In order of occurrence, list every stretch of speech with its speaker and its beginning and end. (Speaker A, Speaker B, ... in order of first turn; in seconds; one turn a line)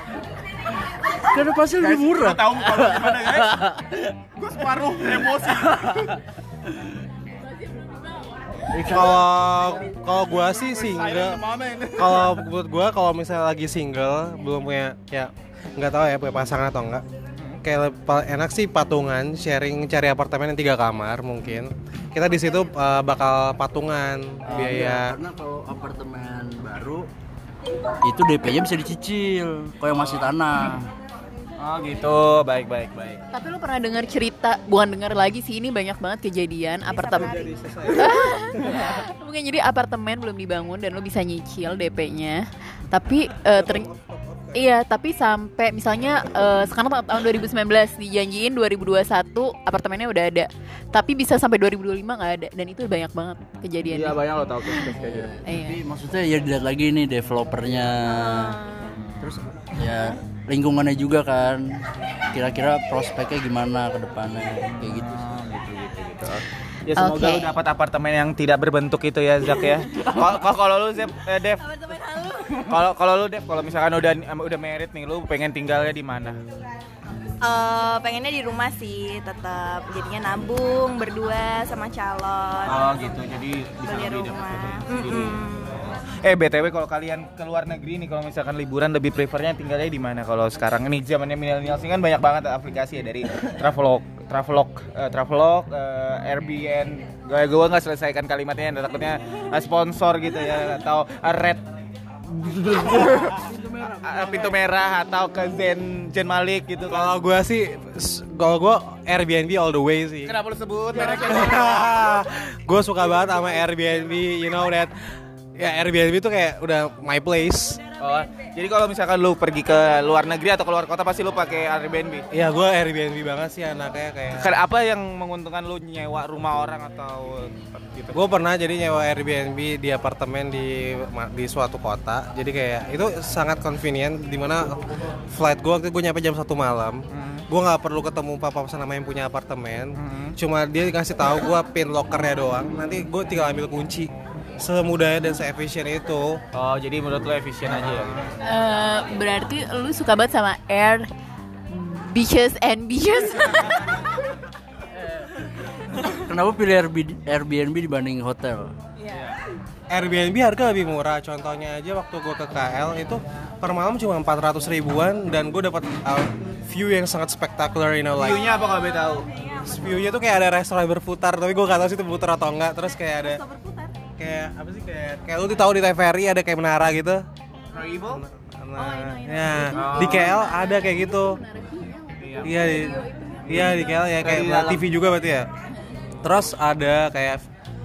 Speaker A: 1.1-4.0
Speaker B: 1.8-6.2
Speaker A: 8.7-9.1
Speaker C: 8.9-11.4
Speaker B: 10.3-12.5
Speaker C: 11.9-17.0
Speaker C: 17.6-25.2
Speaker A: 24.5-27.1
Speaker A: 28.0-30.9
Speaker B: 30.0-30.3
Speaker B: 31.6-33.2
Speaker D: 33.3-43.9
Speaker E: 36.8-37.8
Speaker C: 37.1-38.9
Speaker C: 43.5-44.6
Speaker D: 44.5-55.8
Speaker B: 53.9-55.4
Speaker A: 55.1-58.6
Speaker E: 58.0-59.0
Speaker B: 58.9-59.2
Speaker A: 59.2-65.2
Speaker B: 64.8-71.8
Speaker D: 67.0-67.5
Speaker E: 71.8-72.6
Speaker B: 72.5-76.4
Speaker E: 77.4-82.9
Speaker B: 82.7-85.4
Speaker E: 83.8-85.7
Speaker B: 86.2-101.7
Speaker B: 102.3-103.5
Speaker A: 102.7-104.6
Speaker B: 104.0-107.2
Speaker C: 106.9-110.4
Speaker B: 110.2-111.9
Speaker C: 111.0-114.9
Speaker C: 115.6-117.8
Speaker B: 118.0-122.2
Speaker C: 122.3-124.5
Speaker B: 124.3-128.2
Speaker C: 128.1-146.4
Speaker B: 137.1-137.5
Speaker B: 140.0-140.4
Speaker B: 146.5-148.3
Speaker D: 148.4-151.1
Speaker D: 151.7-154.3
Speaker A: 155.9-158.8
Speaker B: 159.0-159.4
Speaker C: 159.9-168.5
Speaker B: 168.2-169.3
Speaker E: 169.4-169.8
Speaker C: 169.6-173.4
Speaker E: 173.3-173.9
Speaker C: 174.2-177.2
Speaker B: 177.7-178.2
Speaker C: 178.1-181.4
Speaker D: 178.8-184.1
Speaker B: 179.7-180.4
Speaker B: 182.2-182.7
Speaker C: 182.4-185.5
Speaker B: 183.5-184.8
Speaker C: 186.2-187.5